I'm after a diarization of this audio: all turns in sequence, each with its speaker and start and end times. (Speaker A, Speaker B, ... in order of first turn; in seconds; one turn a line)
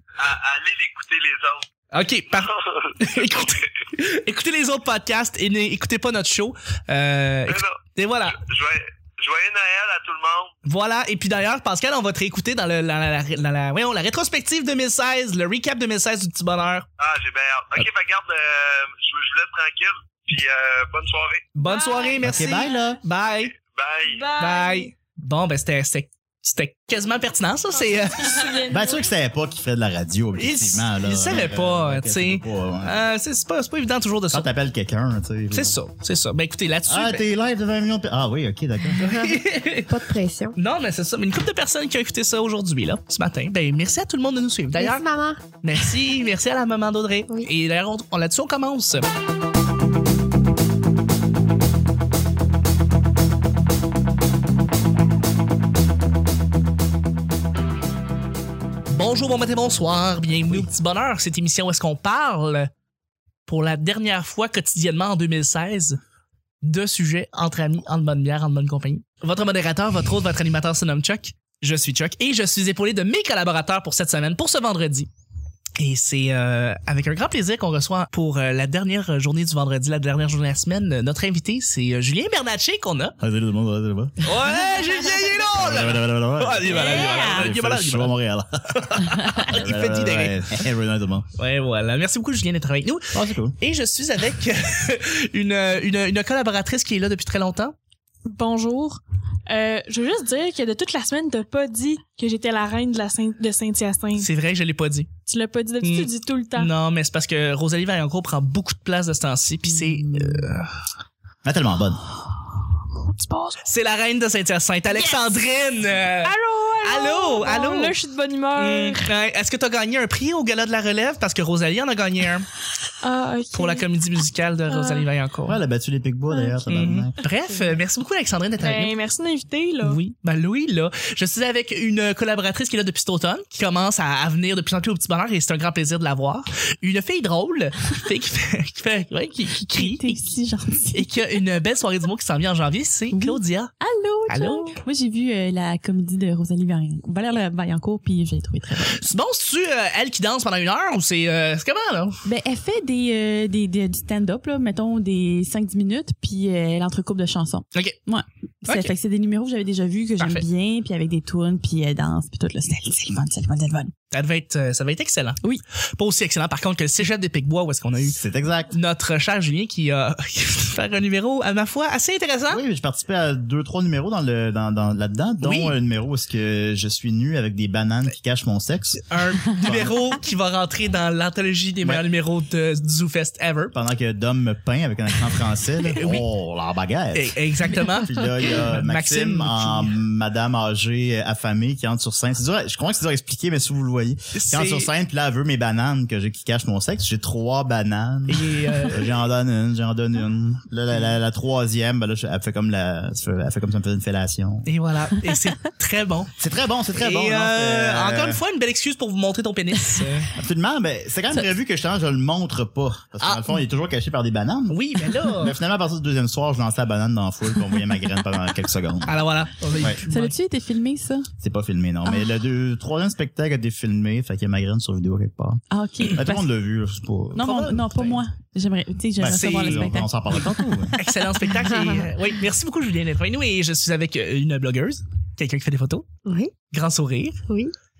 Speaker A: 0.2-1.7
Speaker B: 1.9-8.4
Speaker A: 2.3-3.4
Speaker A: 7.5-10.5
Speaker B: 10.6-16.9
Speaker A: 17.0-21.4
Speaker B: 21.5-23.5
Speaker C: 21.6-22.5
Speaker D: 22.2-23.0
Speaker A: 23.4-24.3
Speaker C: 24.1-24.9
Speaker B: 24.4-28.6
Speaker C: 27.9-29.0
Speaker D: 28.7-33.0
Speaker B: 30.4-34.5
Speaker D: 34.3-35.7
Speaker B: 35.5-37.2
Speaker D: 36.9-39.0
Speaker B: 39.0-40.0
Speaker E: 39.0-40.6
Speaker B: 40.5-45.0
Speaker E: 44.8-45.4
Speaker B: 45.6-49.1
Speaker B: 58.9-62.7
Speaker B: 63.5-66.0
Speaker B: 66.6-75.1
Speaker B: 75.8-83.2
Speaker D: 83.2-84.2
Speaker B: 84.2-88.1
Speaker D: 85.5-91.3
Speaker F: 86.7-87.5
Speaker B: 89.3-90.4
Speaker B: 91.4-97.7
Speaker D: 93.1-93.5
Speaker C: 98.2-104.3
Speaker B: 104.2-105.1
Speaker C: 105.3-106.7
Speaker B: 105.8-110.7
Speaker D: 111.4-112.0
Speaker C: 113.1-113.6
Speaker B: 113.6-118.0
Speaker C: 114.9-115.4
Speaker C: 116.2-119.1
Speaker B: 118.5-122.5
Speaker C: 123.0-123.8
Speaker B: 123.5-125.6
Speaker C: 124.7-125.1
Speaker D: 125.5-127.1
Speaker C: 126.3-126.6
Speaker B: 126.7-128.9
Speaker C: 127.5-127.8
Speaker C: 128.6-130.0
Speaker B: 129.8-140.2
Speaker F: 139.7-141.1
Speaker B: 140.9-143.7
Speaker F: 143.1-149.1
Speaker B: 144.3-144.8
Speaker B: 148.9-152.2
Speaker F: 152.2-163.9
Speaker B: 158.7-158.9
Speaker B: 160.2-160.4
Speaker B: 164.1-165.4
Speaker B: 165.9-168.2
Speaker D: 168.0-168.8
Speaker B: 168.7-172.6
Speaker D: 172.5-180.0
Speaker B: 175.4-175.7
Speaker B: 179.1-183.7
Speaker D: 183.7-187.4
Speaker B: 185.9-186.2
Speaker B: 187.1-190.0
Speaker D: 187.9-204.7
Speaker B: 194.3-194.9
Speaker B: 198.3-199.1
Speaker B: 204.7-206.3
Speaker D: 206.4-208.4
Speaker B: 206.9-210.3
Speaker D: 210.3-219.1
Speaker B: 213.2-213.5
Speaker B: 214.7-215.5
Speaker B: 219.1-220.3
Speaker F: 220.1-221.3
Speaker D: 221.4-225.6
Speaker F: 225.7-226.4
Speaker D: 226.1-228.1
Speaker F: 227.3-230.5
Speaker B: 227.4-228.2
Speaker D: 229.2-230.9
Speaker B: 229.2-229.9
Speaker B: 231.0-236.1
Speaker E: 231.5-232.1
Speaker E: 236.2-236.5
Speaker B: 236.7-237.4